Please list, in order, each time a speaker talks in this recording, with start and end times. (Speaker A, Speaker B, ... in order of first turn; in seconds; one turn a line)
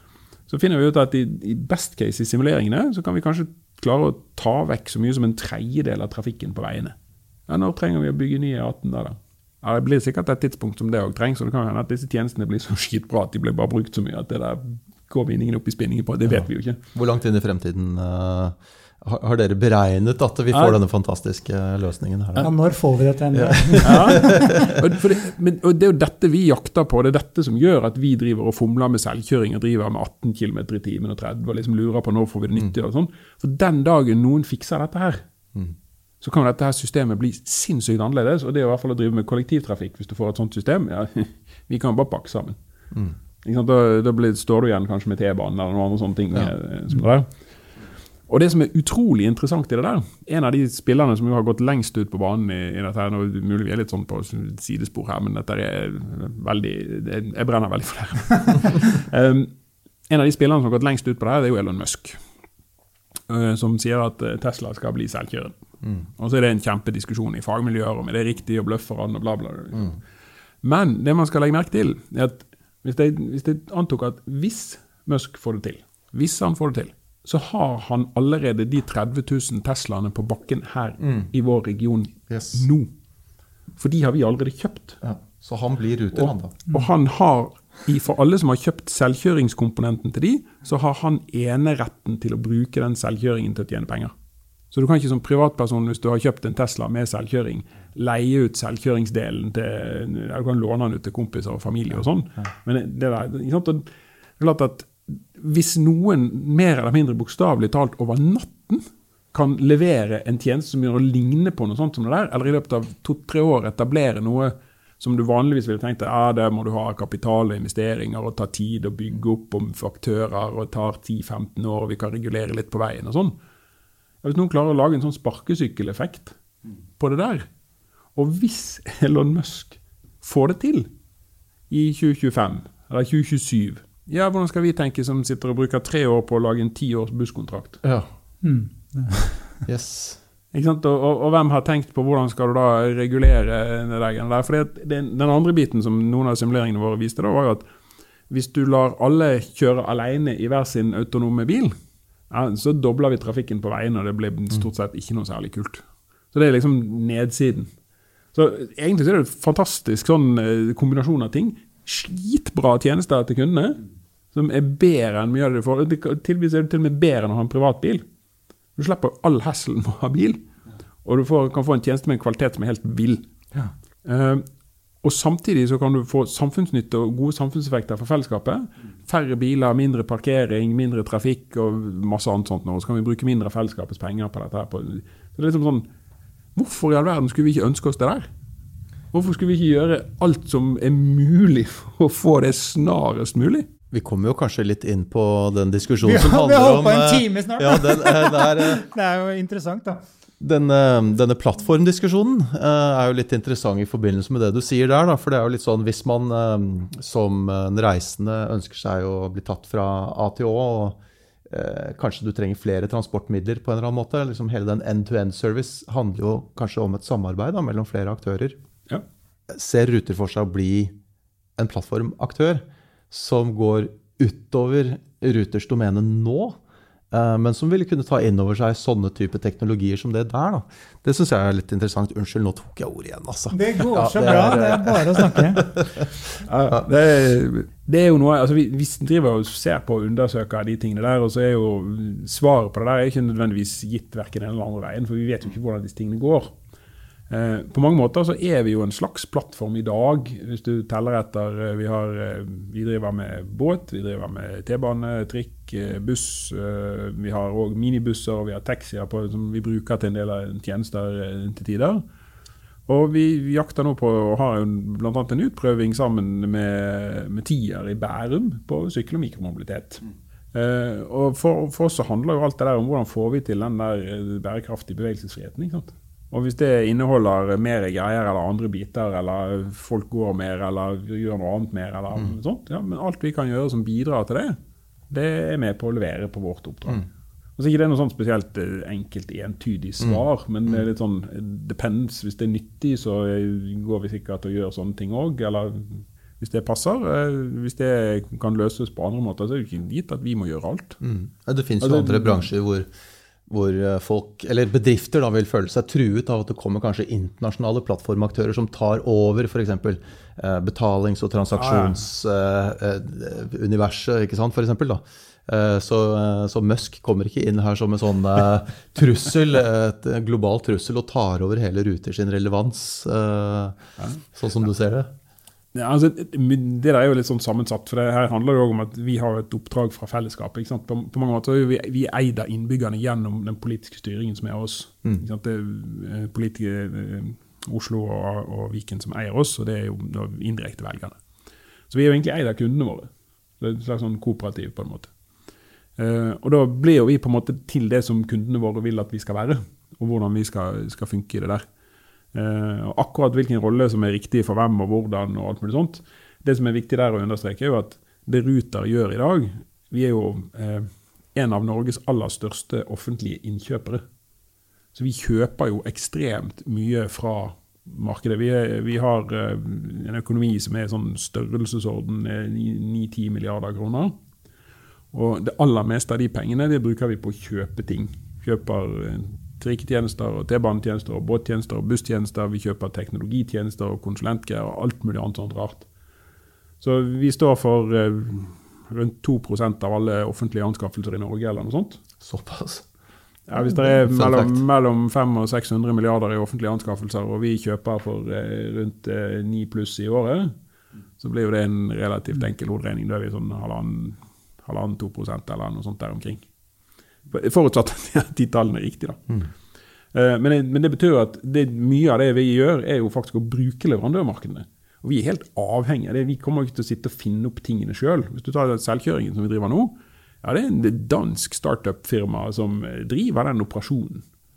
Speaker A: 0.5-6.9
Speaker A: 7.5-16.8
Speaker B: 16.2-22.5
Speaker C: 22.4-24.5
Speaker B: 23.3-24.7
Speaker A: 23.8-35.2
Speaker A: 36.2-42.6
Speaker A: 43.4-47.3
Speaker A: 48.3-59.5
Speaker A: 60.1-62.2
Speaker A: 63.3-65.5
Speaker A: 66.2-69.9
Speaker A: 70.6-82.9
Speaker B: 81.0-81.3
Speaker B: 82.3-82.6
Speaker A: 83.8-85.0
Speaker B: 85.0-86.5
Speaker A: 86.1-94.1
Speaker A: 94.7-103.8
Speaker A: 104.4-123.3
Speaker A: 124.2-126.3
Speaker A: 127.0-127.5
Speaker A: 128.1-130.9
Speaker A: 131.7-137.8
Speaker B: 137.8-138.1
Speaker C: 138.4-139.5
Speaker B: 139.7-140.2
Speaker A: 140.5-147.6
Speaker A: 148.3-151.7
Speaker A: 152.3-157.7
Speaker A: 158.3-163.8
Speaker A: 164.3-168.0
Speaker A: 168.8-170.4
Speaker A: 171.0-173.3
Speaker A: 174.0-174.4
Speaker A: 175.0-185.9
Speaker A: 186.6-188.3
Speaker A: 189.1-193.7
Speaker B: 193.9-198.8
Speaker C: 196.0-200.0
Speaker B: 200.4-211.0
Speaker B: 211.5-218.6
Speaker B: 219.5-220.9
Speaker B: 221.6-226.6
Speaker B: 227.1-236.3
Speaker C: 233.5-235.7
Speaker A: 236.4-246.5
Speaker A: 247.3-262.0
Speaker A: 262.9-284.6
Speaker A: 285.1-287.0
Speaker A: 287.6-301.0
Speaker B: 290.0-290.8
Speaker B: 301.0-302.9
Speaker A: 301.8-302.4
Speaker B: 303.5-323.8
Speaker A: 311.6-312.0
Speaker B: 324.3-325.1
Speaker A: 325.7-341.2
Speaker A: 341.9-345.1
Speaker A: 346.0-351.6
Speaker A: 352.3-364.0
Speaker A: 364.9-374.1
Speaker A: 375.1-385.9
Speaker A: 386.8-392.0
Speaker B: 392.2-392.8
Speaker A: 393.5-400.5
Speaker B: 393.8-394.6
Speaker A: 401.2-406.4
Speaker A: 407.3-409.4
Speaker A: 410.1-424.2